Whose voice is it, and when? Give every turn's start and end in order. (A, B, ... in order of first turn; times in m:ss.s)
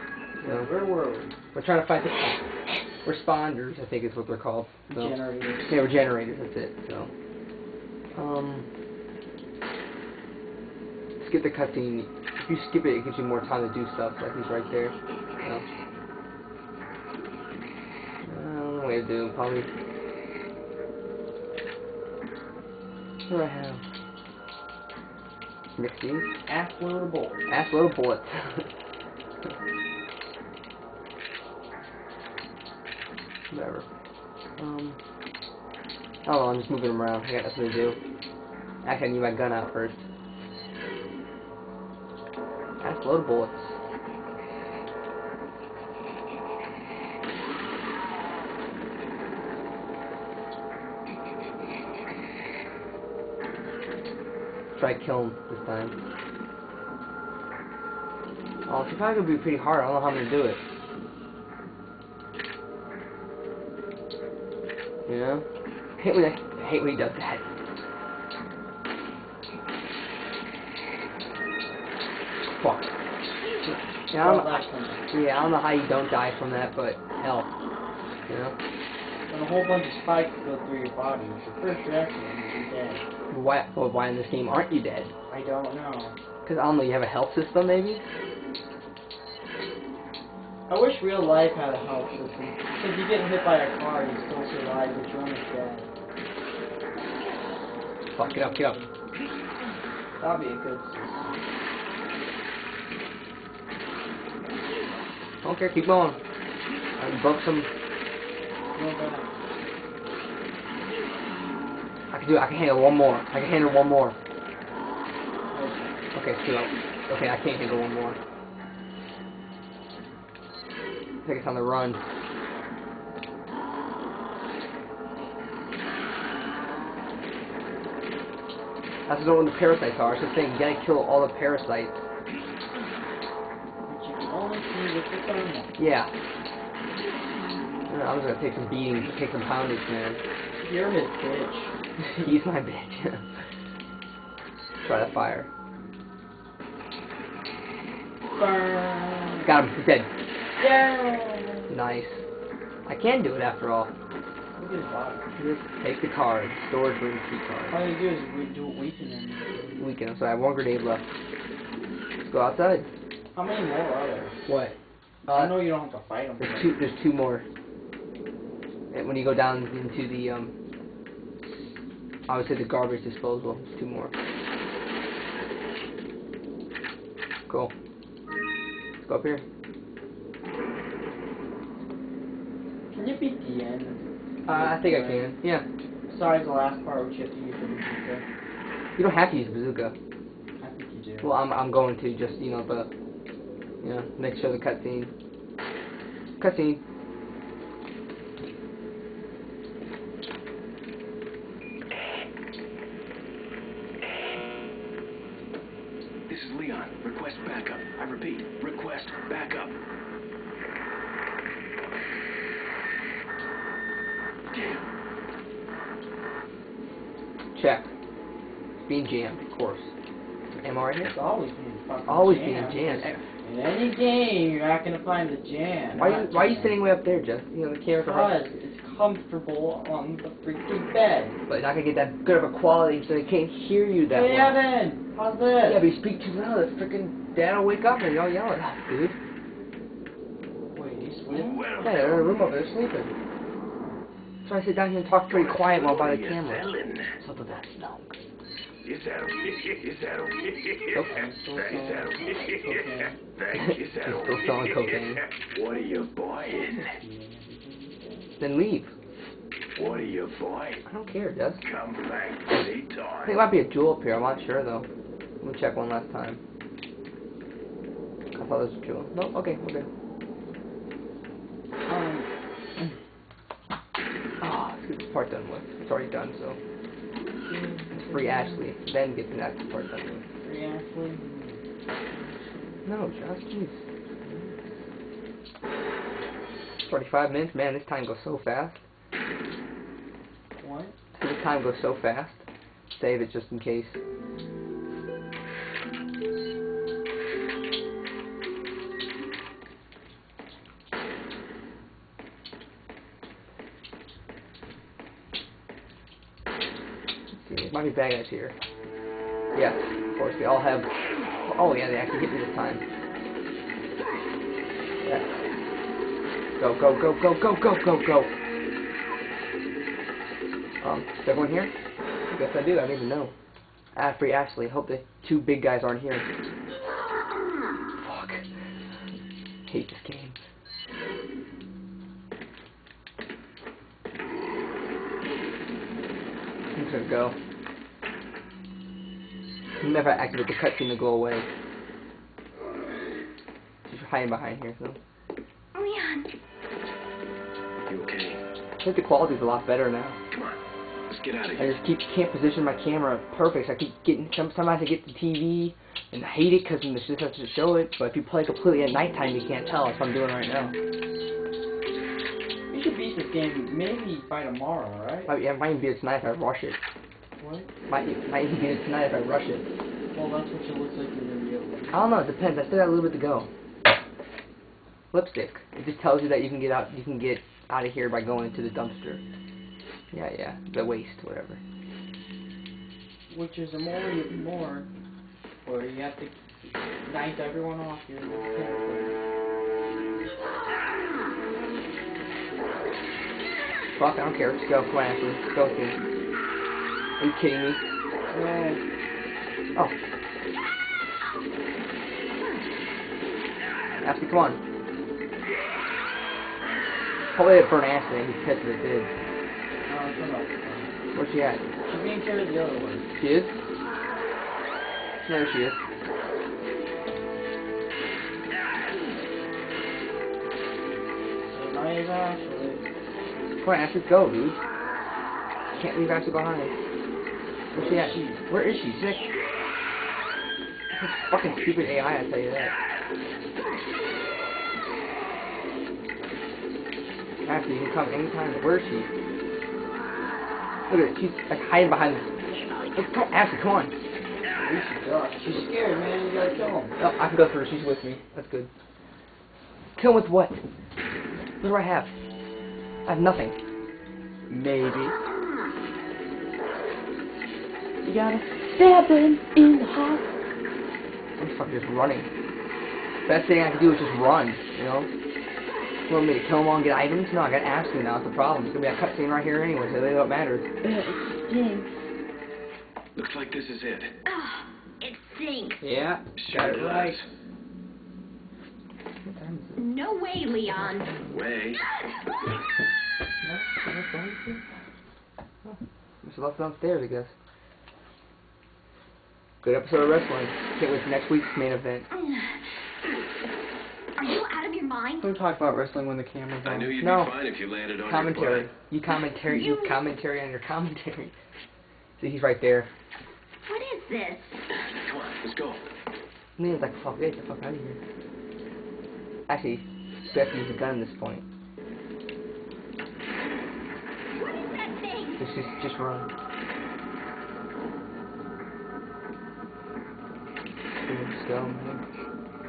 0:00.4-0:01.3 A
0:00.4-0:00.7 B
0:01.5-0:02.4 B
0:03.0-0:07.1 B
0:04.9-0:05.7 A
0:08.2-0:08.6 B
0:11.2-0:15.6 B
0:18.2-0:19.7 B
0:23.3-0:23.8 B
0:25.8-0:26.3 B
0:26.4-0:27.5 A
0:27.5-0:28.7 B
0:33.5-0:33.8 B
0:34.6-0:35.0 B
0:36.2-0:38.0 B
0:38.8-0:40.0 B
0:42.8-0:43.8 B
0:54.7-0:55.9 B
0:58.7-1:00.6 B
1:05.1-1:05.4 B
1:06.0-1:07.4 B
1:12.5-1:12.9 B
1:13.4-1:13.8 C
1:13.6-1:15.0 A
1:14.1-1:17.5 B
1:18.3-1:18.5 B
1:19.3-1:23.0 A
1:23.3-1:25.1 B
1:25.3-1:26.2 A
1:26.4-1:28.0 B
1:30.7-1:35.9 A
1:38.1-1:38.8 B
1:38.2-1:38.9 A
1:40.2-1:41.4 A
1:45.4-1:46.2 B
1:47.0-1:47.7 B
1:48.7-1:49.3 A
1:52.1-1:54.2 B
1:55.5-1:55.9 A
1:56.1-1:58.2 B
2:01.2-2:02.0 B
2:09.1-2:12.0 B
2:13.8-2:15.8 A
2:15.8-2:16.1 B
2:17.9-2:20.2 B
2:20.6-2:21.7 A
2:22.0-2:23.2 B
2:24.8-2:25.5 B
2:28.3-2:29.5 A
2:29.4-2:30.1 B
2:30.6-2:31.7 A
2:31.7-2:32.2 B
2:32.8-2:33.9 B
2:34.5-2:35.3 A
2:35.4-2:37.9 B
2:37.7-2:39.8 A
2:39.8-2:41.1 B
2:42.2-2:42.9 B
2:43.3-2:44.4 A
2:44.4-2:44.7 B
2:45.3-2:45.6 B
2:45.3-2:46.7 A
2:46.4-2:47.4 B
2:48.9-2:50.5 B
2:52.3-2:54.1 B
2:59.0-2:59.4 B
3:02.9-3:05.4 A
3:04.4-3:05.6 B
3:06.1-3:08.2 A
3:09.0-3:09.9 B
3:10.6-3:11.4 A
3:11.2-3:12.9 B
3:13.8-3:15.1 B
3:16.4-3:16.8 B
3:26.3-3:29.7 D
3:34.5-3:34.8 D
3:37.5-3:37.9 B
3:38.8-3:39.9 B
3:40.5-3:41.2 B
3:41.0-3:46.8 A
3:42.1-3:43.2 B
3:45.9-3:48.4 B
3:47.9-3:51.4 A
3:51.5-3:54.6 B
3:54.1-3:55.8 A
3:55.6-3:59.2 B
4:00.7-4:01.7 A
4:01.3-4:03.1 B
4:01.7-4:02.2 D
4:04.4-4:08.1 B
4:05.3-4:07.1 D
4:08.8-4:10.5 D
4:11.1-4:13.2 A
4:13.4-4:14.8 D
4:13.5-4:15.2 B
4:15.5-4:17.0 D
4:16.8-4:18.3 A
4:18.4-4:18.9 B
4:19.8-4:20.8 D
4:19.8-4:20.0 A
4:20.8-4:21.6 B
4:21.7-4:23.3 D
4:23.2-4:24.9 B
4:25.4-4:26.4 B
4:28.3-4:29.9 B
4:31.8-4:32.9 A
4:34.4-4:36.6 B
4:37.4-4:38.6 A
4:37.9-4:40.2 B
4:40.4-4:42.9 A
4:42.8-4:43.8 B
4:44.2-4:44.6 A
4:46.8-4:48.8 B
4:50.6-4:51.0 A
4:51.2-4:54.0 B
5:07.3-5:08.5 B
5:09.5-5:10.9 B
5:11.4-5:12.8 B
5:16.6-5:18.3 B
5:20.8-5:21.7 B
5:22.3-5:23.3 B
5:23.9-5:26.2 B
5:28.0-5:28.4 B
5:29.7-5:30.4 B
5:36.7-5:37.4 B
5:39.8-5:41.4 B
5:43.9-5:45.0 B
5:45.7-5:46.3 C
5:47.8-5:48.4 D
5:48.8-5:50.2 B
5:50.3-5:50.6 D
5:51.1-5:51.8 D
5:51.6-6:00.7 B
6:02.7-6:05.3 A
6:05.3-6:06.8 B
6:07.4-6:07.7 A
6:07.9-6:09.7 B
6:10.1-6:12.0 A
6:11.9-6:13.5 B
6:15.1-6:19.2 B
6:20.1-6:21.6 B
6:23.3-6:24.8 A
6:25.6-6:29.1 A
6:33.9-6:36.0 B
6:37.2-6:37.8 B
6:38.3-6:38.8 A
6:44.0-6:44.6 B
6:47.3-6:49.1 B
6:49.8-6:50.9 A
6:51.1-6:51.6 B
6:51.8-6:53.1 A
6:53.2-6:53.6 B
6:55.2-6:55.8 B
7:01.4-7:02.8 A
7:03.6-7:04.6 B
7:05.7-7:06.8 B
7:07.7-7:09.3 B
7:07.7-7:08.5 A
7:11.0-7:12.7 B
7:17.4-7:19.1 B
7:20.9-7:22.3 B
7:22.9-7:23.9 B
7:24.5-7:27.0 A
7:27.0-7:28.7 B
7:30.0-7:30.6 B
7:31.6-7:32.1 B
7:33.0-7:33.6 B
7:34.5-7:35.1 A
7:38.0-7:40.2 A
7:41.4-7:42.3 B
7:43.2-7:45.1 B
7:46.1-7:50.6 B
7:50.8-7:51.9 A
7:53.2-7:54.1 D
7:54.3-7:55.8 C
7:55.8-7:57.0 B
7:56.4-7:57.3 D
7:56.7-7:57.1 A
7:59.2-7:59.8 B
7:59.8-8:01.1 C
8:00.8-8:01.3 B
8:01.3-8:01.8 D
8:03.4-8:04.6 A
8:05.6-8:07.3 B
8:09.6-8:12.1 B
8:12.1-8:12.5 C
8:14.2-8:15.3 C
8:15.2-8:16.9 A
8:16.6-8:18.7 D
8:17.0-8:17.3 B
8:18.0-8:21.3 B
8:19.4-8:20.0 C
8:22.2-8:22.9 B
8:23.6-8:24.6 C
8:24.9-8:25.8 D
8:26.6-8:28.0 B
8:29.5-8:31.4 B
8:34.6-8:35.4 C
8:35.4-8:36.3 B
8:41.0-8:42.0 B